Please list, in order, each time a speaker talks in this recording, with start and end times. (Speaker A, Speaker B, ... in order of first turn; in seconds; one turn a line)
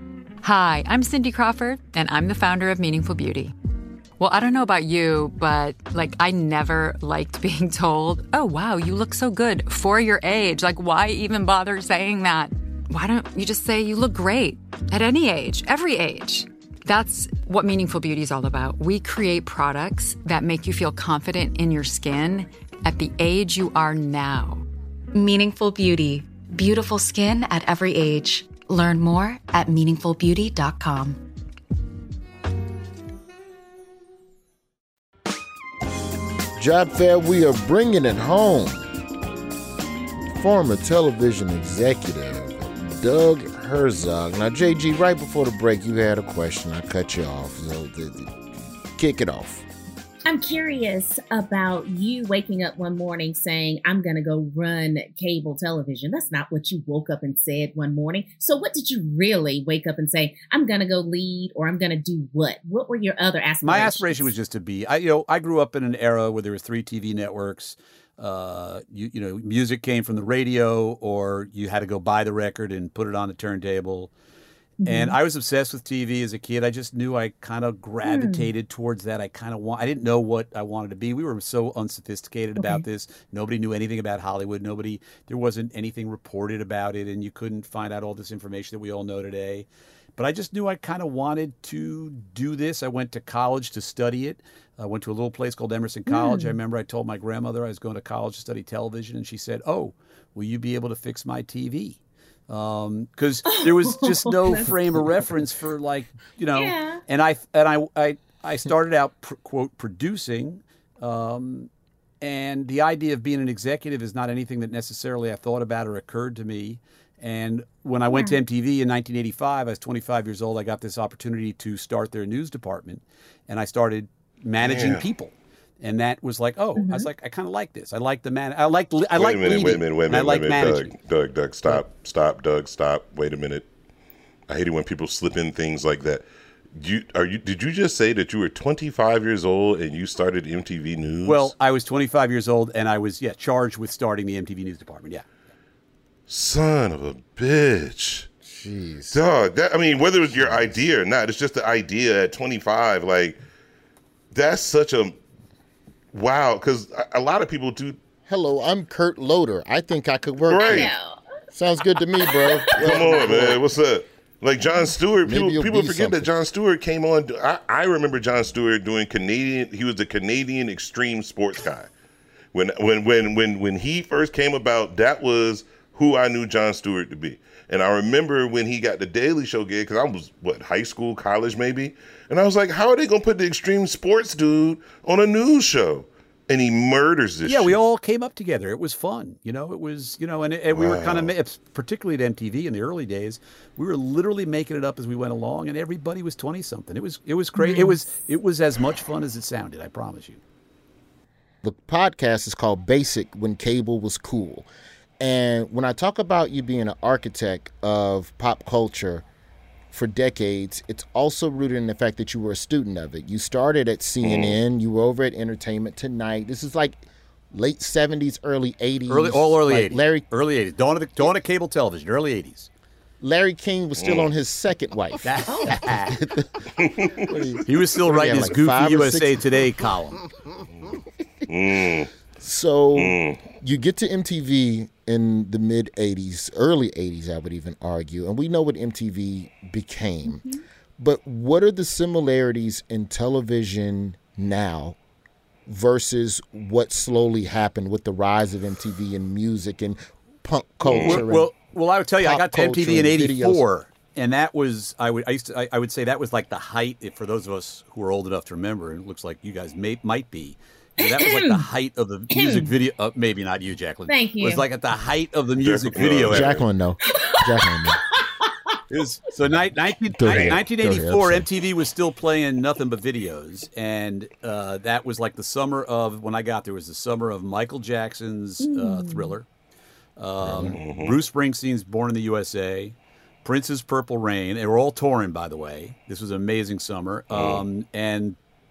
Speaker A: 0.4-3.5
Speaker A: 4.2-24.6
Speaker B: 25.1-31.2
Speaker C: 36.6-38.8
Speaker C: 40.3-48.4
Speaker C: 49.0-49.6
Speaker D: 50.2-64.3
Speaker E: 63.6-74.1
Speaker D: 74.8-75.2
Speaker E: 74.8-111.7
Speaker D: 78.0-78.5
Speaker D: 96.1-96.5
Speaker D: 103.5-104.7
Speaker D: 106.5-107.0
Speaker E: 112.2-130.9
Speaker D: 118.1-118.4
Speaker F: 124.6-125.1
Speaker D: 126.8-127.1
Speaker F: 129.1-133.7
Speaker F: 134.5-141.5
Speaker E: 141.2-145.2
Speaker F: 146.3-148.3
Speaker C: 148.4-149.2
Speaker F: 149.1-153.4
Speaker C: 150.3-150.8
Speaker F: 154.3-155.2
Speaker F: 156.1-158.0
Speaker C: 158.3-160.9
Speaker F: 160.4-160.9
Speaker D: 160.7-161.1
Speaker C: 161.5-163.6
Speaker D: 162.2-163.1
Speaker F: 162.7-171.9
Speaker C: 165.2-166.3
Speaker F: 172.5-187.8
Speaker E: 187.4-200.4
Speaker F: 190.7-191.3
Speaker D: 197.6-198.0
Speaker C: 201.6-204.7
Speaker C: 205.2-209.2
Speaker C: 209.9-220.3
Speaker F: 214.2-214.6
Speaker E: 219.1-222.7
Speaker C: 223.2-229.4
Speaker F: 224.0-224.3
Speaker E: 225.2-226.2
Speaker F: 226.8-227.3
Speaker E: 227.7-230.2
Speaker F: 231.5-232.1
Speaker C: 232.4-240.4
Speaker F: 232.9-233.5
Speaker D: 240.2-240.6
Speaker C: 241.0-245.0
Speaker C: 245.7-251.5
Speaker F: 250.8-251.2
Speaker E: 250.9-266.6
Speaker C: 252.2-253.6
Speaker D: 261.0-261.6
Speaker D: 262.3-262.7
Speaker D: 264.1-264.6
Speaker F: 265.6-266.6
Speaker C: 266.2-268.0
Speaker E: 268.9-279.5
Speaker C: 270.1-271.5
Speaker F: 270.3-270.5
Speaker D: 278.6-279.4
Speaker E: 280.2-288.4
Speaker C: 280.4-280.8
Speaker F: 280.7-281.1
Speaker F: 287.3-287.6